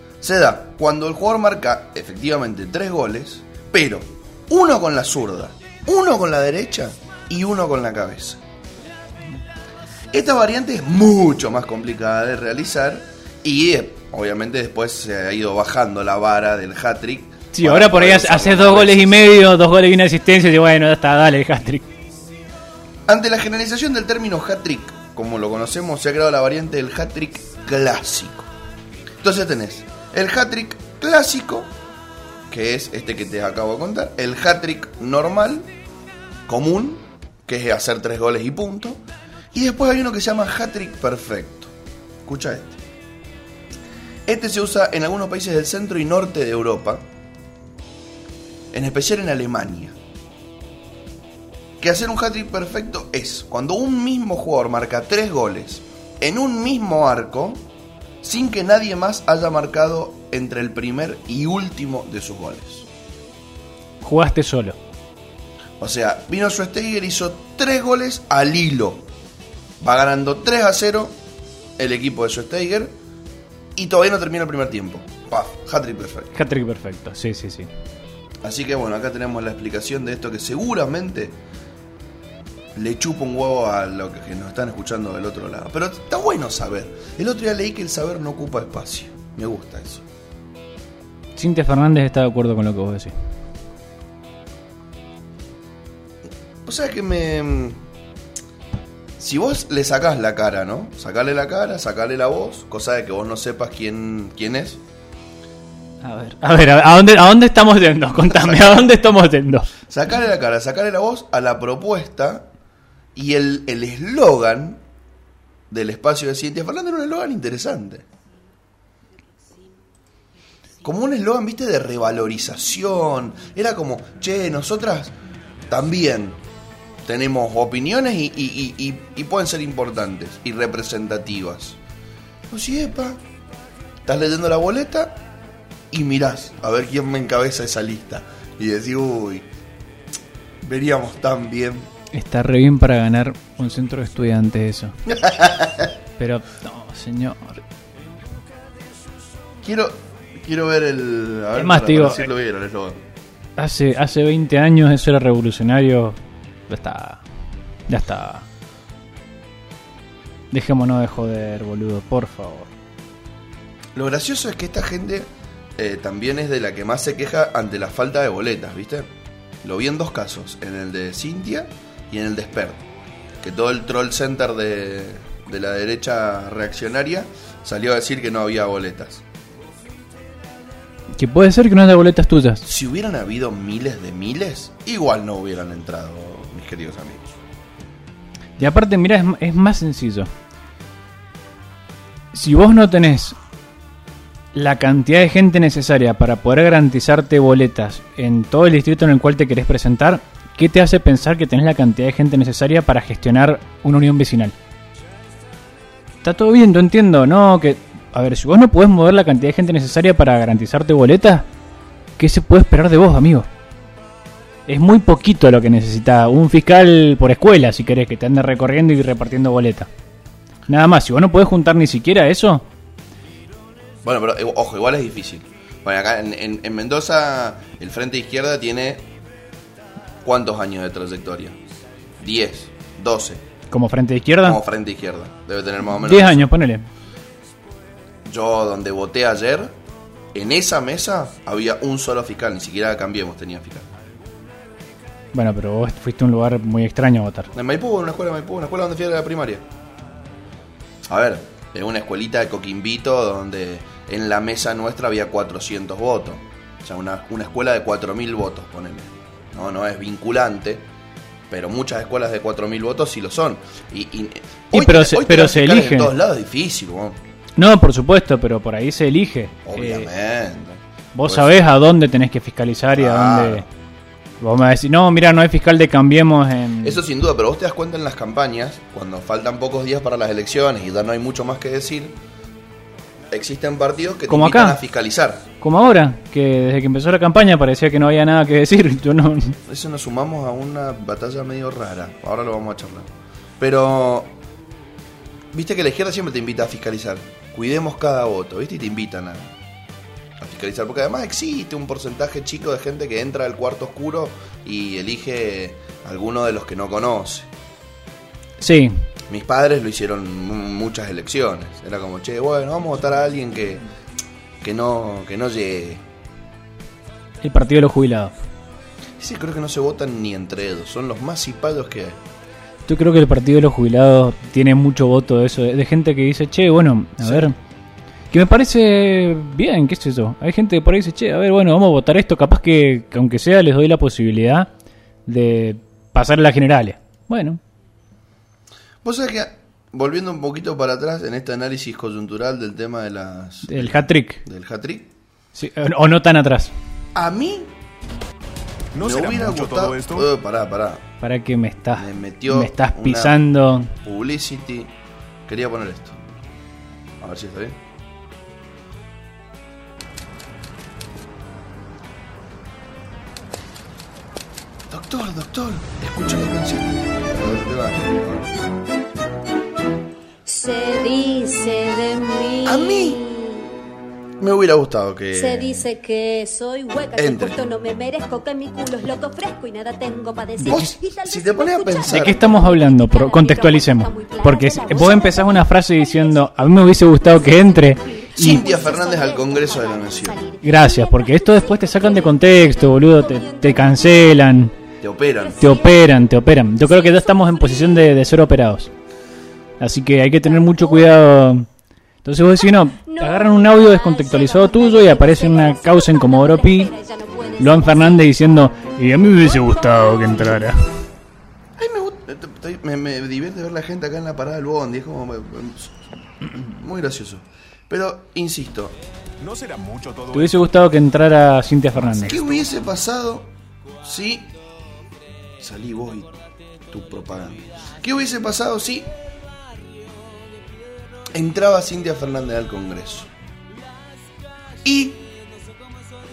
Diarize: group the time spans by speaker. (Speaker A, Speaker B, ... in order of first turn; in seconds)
Speaker A: 0.2-8.4, 10.1-19.2, 23.1-28.5, 29.2-31.7, 32.5-35.7, 36.5-39.0, 39.5-41.7, 42.2-42.8, 44.3-47.0, 48.7-50.0, 51.8-57.6, 58.2-62.9, 65.8-69.0, 69.8-71.2, 71.8-73.0, 73.8-76.3, 78.4-81.4, 82.8-90.0, 96.7-97.8, 99.2-104.8, 108.3-108.9, 109.9-112.5, 113.2-114.8, 115.7-118.0, 120.8-125.1, 125.7-126.4, 127.0-131.8, 132.5-133.2, 134.1-135.2, 135.9-139.5, 140.6-141.9, 145.1-145.9, 149.6-153.0, 163.9-169.1, 169.6-172.8, 173.4-179.2, 182.7-187.3, 224.0-229.1, 230.2-231.6, 232.2-233.4, 234.4-236.4, 238.2-239.8, 240.3-243.9, 247.5-249.7, 251.1-260.9, 261.5-267.2, 269.7-271.6, 273.0-273.6, 276.8-282.2, 283.3-285.5, 289.7-294.3, 295.5-299.5, 300.4-307.5, 309.3-313.8, 314.6-316.0, 319.2-322.2, 327.2-327.5, 339.0-345.1, 347.1-347.7, 349.0-351.0, 352.0-353.4, 354.0-354.9, 355.5-356.2, 357.2-357.8, 364.9-368.6, 372.6-373.2, 374.4-375.9, 377.1-377.6, 380.7-382.5, 388.4-390.4, 395.0-395.6, 411.8-418.9, 422.3-423.5, 424.0-424.5, 425.6-426.4, 426.9-429.1, 431.3-433.3, 434.8-435.3
Speaker B: 17.5-21.9, 64.0-64.8, 76.3-77.7, 91.4-93.1, 106.0-109.7, 142.1-145.0, 146.2-147.6, 151.6-152.3, 153.6-157.2, 157.9-158.5, 160.5-162.7, 181.2-182.6, 188.6-190.3, 192.3-193.4, 194.5-204.6, 206.2-211.5, 212.2-213.5, 214.7-219.9, 220.7-222.7, 233.7-234.6, 236.0-236.9, 245.3-247.5, 264.7-266.1, 267.6-270.1, 271.1-273.7, 274.4-277.0, 284.3-284.8, 285.6-289.6, 308.6-309.0, 317.4-318.3, 322.9-327.6, 328.3-334.7, 335.3-337.6, 343.7-344.4, 345.6-346.7, 351.2-353.9, 380.6-380.9, 382.1-388.6, 390.6-394.7, 395.6-398.9, 399.8-401.7, 402.2-406.9, 407.6-410.8, 420.3-422.4
Speaker C: 348.9-350.3, 419.4-420.6
Speaker D: 370.5-373.7, 375.3-394.5, 395.4-398.1, 400.4-401.2, 402.8-410.7